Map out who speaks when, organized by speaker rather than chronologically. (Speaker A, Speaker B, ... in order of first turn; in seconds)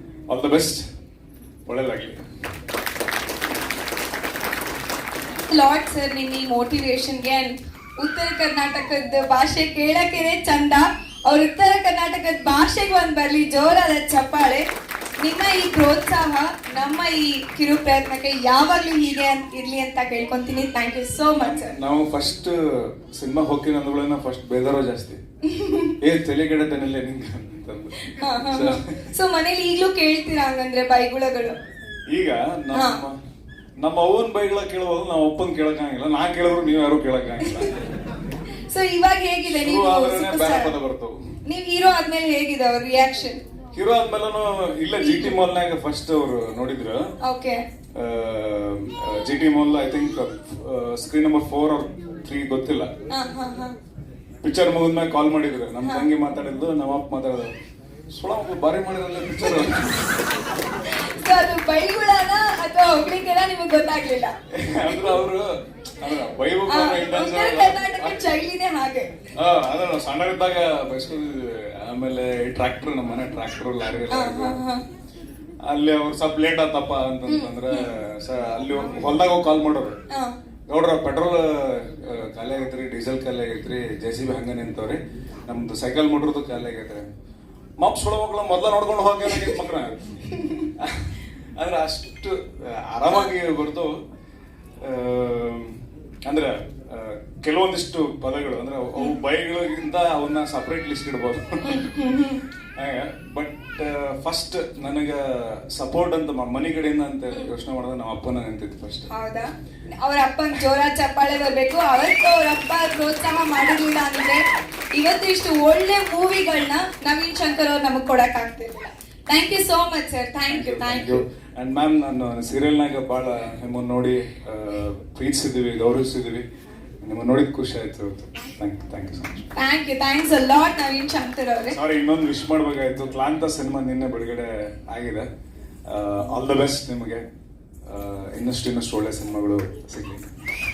Speaker A: 0.3-0.8, 1.7-2.2, 21.4-25.2, 26.0-29.1, 32.1-33.1, 33.8-37.7, 39.5-41.2, 43.7-47.1, 48.0-52.9, 54.4-57.5, 58.1-60.0, 64.5-68.2, 69.3-74.6, 75.7-80.0, 80.7-87.0, 87.8-90.0, 90.8-94.0, 94.8-101.8, 102.8-109.1, 120.5-126.5, 127.0-129.5, 131.7-135.3, 135.9-137.2, 137.9-140.3
Speaker B: 5.5-14.7, 15.2-21.8, 25.4-25.9, 28.2-31.6, 32.7-33.0, 38.7-40.7, 41.5-43.4, 45.0-45.4, 47.2-47.6, 53.1-53.7, 55.8-56.1, 60.8-65.2, 66.7-69.2, 74.1-74.8, 77.3-77.9, 80.1-80.3, 90.4-90.7, 101.6-102.4, 109.1-114.4, 115.0-121.2, 129.5-131.8